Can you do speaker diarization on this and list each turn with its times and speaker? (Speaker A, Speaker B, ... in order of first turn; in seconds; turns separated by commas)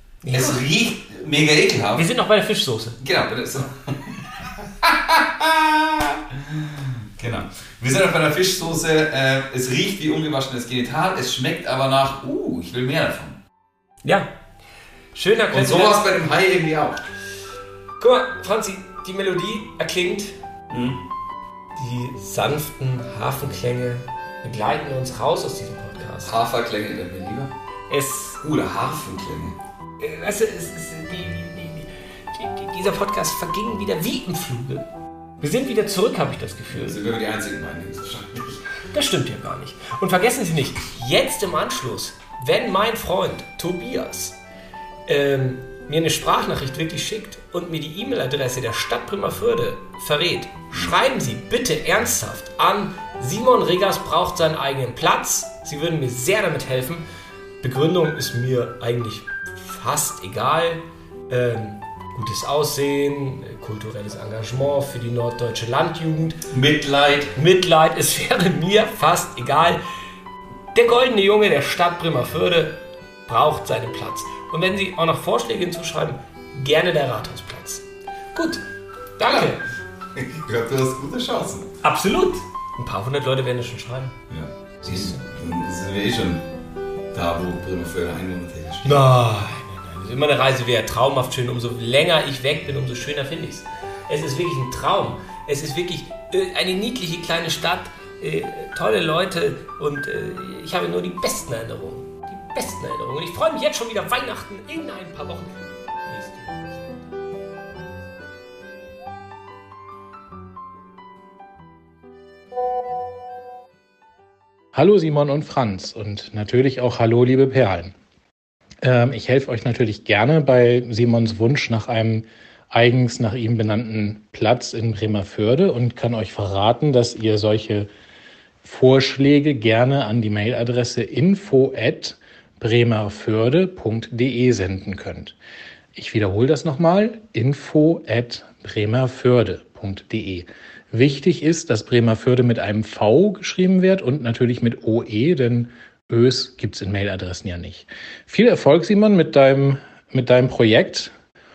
Speaker A: 0.2-0.6, Speaker B: 0.3-2.1, Speaker A: 2.0-3.0, Speaker B: 3.0-13.4, Speaker A: 14.0-14.3, Speaker A: 15.1-16.0, Speaker B: 15.5-17.0, Speaker A: 18.0-20.3, Speaker B: 20.7-21.0, Speaker A: 21.7-26.3, Speaker B: 26.2-27.5, Speaker A: 27.9-28.4, Speaker B: 28.4-29.6, Speaker A: 30.0-34.9, Speaker A: 35.4-37.0, Speaker B: 36.7-38.6, Speaker A: 38.9-44.4, Speaker A: 45.1-57.0, Speaker A: 57.6-66.4, Speaker B: 66.5-67.3, Speaker A: 67.3-69.8, Speaker A: 70.7-78.6, Speaker A: 79.2-79.6, Speaker B: 79.2-79.5, Speaker B: 80.1-81.7, Speaker A: 81.8-84.2, Speaker B: 84.3-86.4, Speaker A: 84.8-85.2, Speaker B: 87.1-89.1, Speaker A: 88.8-107.0, Speaker C: 114.8-117.9, Speaker C: 118.8-127.9, Speaker C: 128.6-135.4, Speaker C: 135.9-151.1